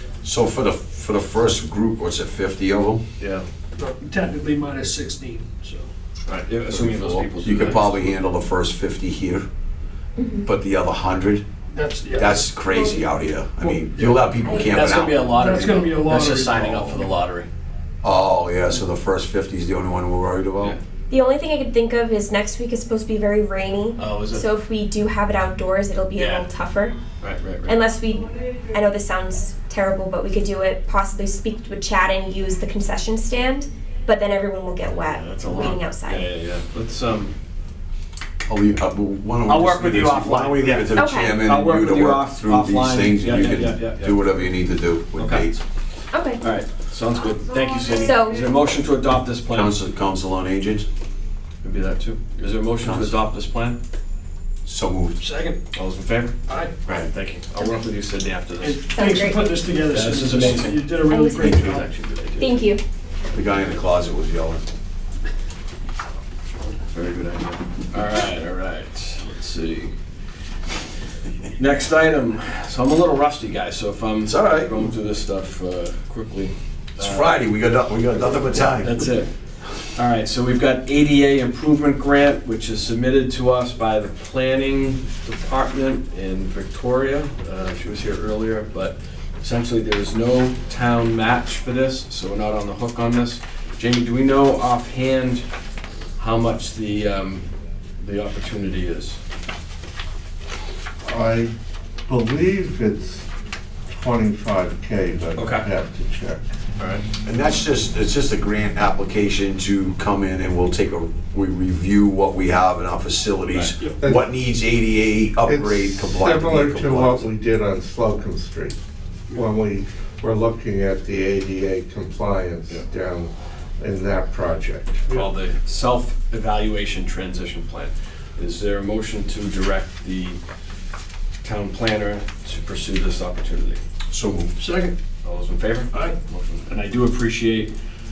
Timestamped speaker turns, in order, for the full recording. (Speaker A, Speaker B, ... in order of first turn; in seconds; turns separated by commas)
Speaker A: 0.2-3.0, Speaker B: 3.2-3.5, Speaker C: 3.8-5.9, Speaker B: 6.3-8.2, Speaker A: 6.6-9.5, Speaker D: 10.2-10.5, Speaker A: 10.4-11.4, Speaker C: 11.7-12.5, Speaker A: 12.1-15.8, Speaker D: 12.7-13.0, Speaker C: 13.6-14.2, Speaker B: 14.4-17.5, Speaker C: 15.2-17.1, Speaker A: 18.0-20.8, Speaker D: 21.1-27.0, Speaker B: 24.0-24.5, Speaker B: 26.1-26.5, Speaker B: 27.2-27.8, Speaker D: 27.7-36.3, Speaker B: 35.3-37.3, Speaker A: 38.5-45.6, Speaker B: 39.5-44.3, Speaker D: 41.0-41.4, Speaker B: 45.2-45.5, Speaker D: 46.1-46.4, Speaker B: 46.4-49.8, Speaker D: 47.9-48.4, Speaker A: 49.5-50.9, Speaker B: 51.6-53.8, Speaker A: 52.8-53.1, Speaker A: 54.7-55.2, Speaker C: 55.2-55.6, Speaker B: 55.7-58.8, Speaker C: 56.5-56.8, Speaker C: 58.6-61.9, Speaker D: 58.9-59.6, Speaker B: 59.9-62.7, Speaker D: 61.1-61.6, Speaker D: 62.4-62.8, Speaker A: 63.3-64.6, Speaker B: 66.8-69.9, Speaker B: 71.6-77.3, Speaker A: 74.2-74.7, Speaker A: 77.0-79.0, Speaker B: 78.8-79.3, Speaker B: 80.0-95.4, Speaker B: 96.2-97.5, Speaker B: 98.0-99.2, Speaker E: 101.0-101.5, Speaker E: 102.1-103.3, Speaker E: 103.9-106.4, Speaker B: 105.3-105.7, Speaker B: 106.8-107.0, Speaker A: 107.2-117.2, Speaker B: 113.5-113.8, Speaker E: 114.0-114.2, Speaker E: 115.4-118.8, Speaker E: 119.3-125.3, Speaker B: 125.1-130.4, Speaker B: 131.4-133.8, Speaker A: 134.1-134.5, Speaker C: 134.6-134.9, Speaker B: 135.2-137.7